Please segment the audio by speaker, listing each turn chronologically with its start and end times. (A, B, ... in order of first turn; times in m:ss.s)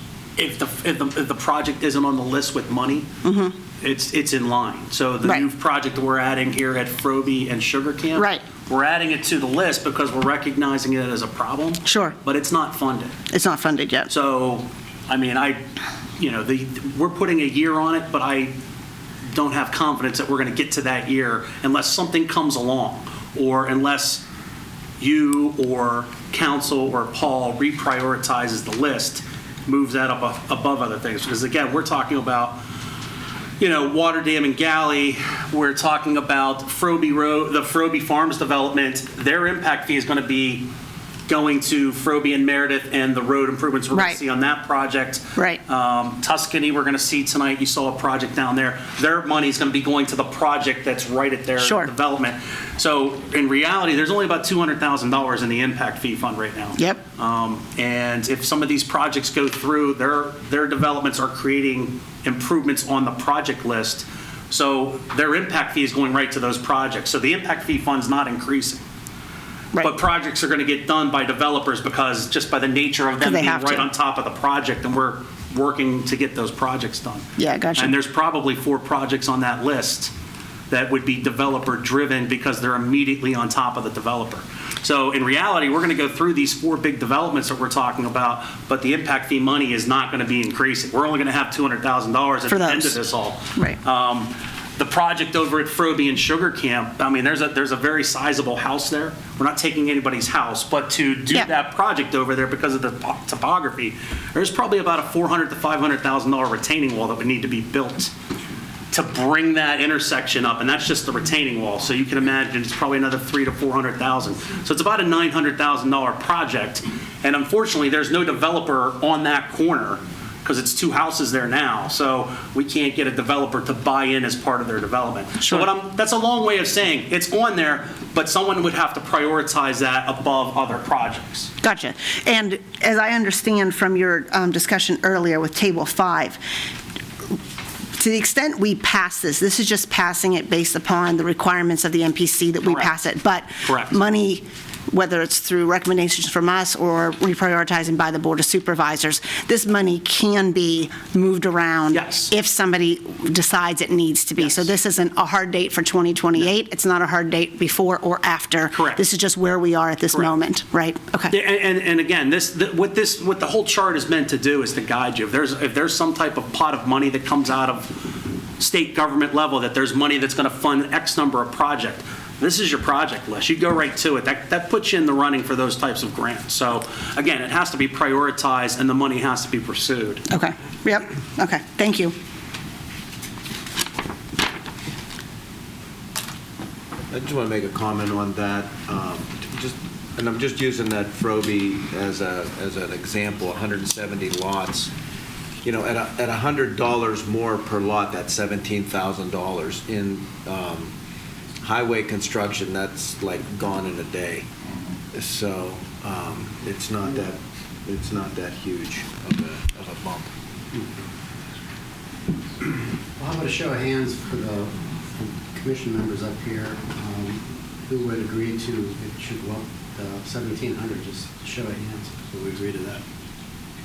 0:00.4-0:03.1 A
0:03.2-0:03.5 B
0:03.8-0:13.1 A
0:08.1-0:08.4 B
0:11.8-0:12.2 B
0:13.3-0:14.1 B
0:14.1-0:15.6 A
0:16.2-0:18.5 A
0:19.3-0:24.2 A
0:25.0-0:32.6 A
0:33.6-0:40.6 A
0:41.3-1:08.8 A
0:43.9-0:44.2 B
0:45.4-0:45.6 B
0:51.6-0:51.9 B
1:09.8-1:17.2 A
1:13.2-1:13.9 B
1:17.4-1:17.9 B
1:17.8-1:20.1 A
1:20.7-1:48.1 A
1:32.5-1:33.0 B
1:48.9-2:11.5 A
2:05.4-2:05.7 B
2:11.6-2:16.4 B
2:17.9-2:41.4 B
2:22.6-2:22.9 A
2:23.6-2:24.0 A
2:31.9-2:32.3 A
2:34.4-2:34.7 A
2:38.7-2:39.0 A
2:41.3-2:48.0 A
2:48.6-3:00.3 A
3:00.3-3:02.1 B
3:07.1-3:14.9 C
3:15.6-3:20.9 C
3:21.6-3:24.5 C
3:25.1-3:30.3 C
3:30.7-3:31.1 D
3:33.2-3:43.0 D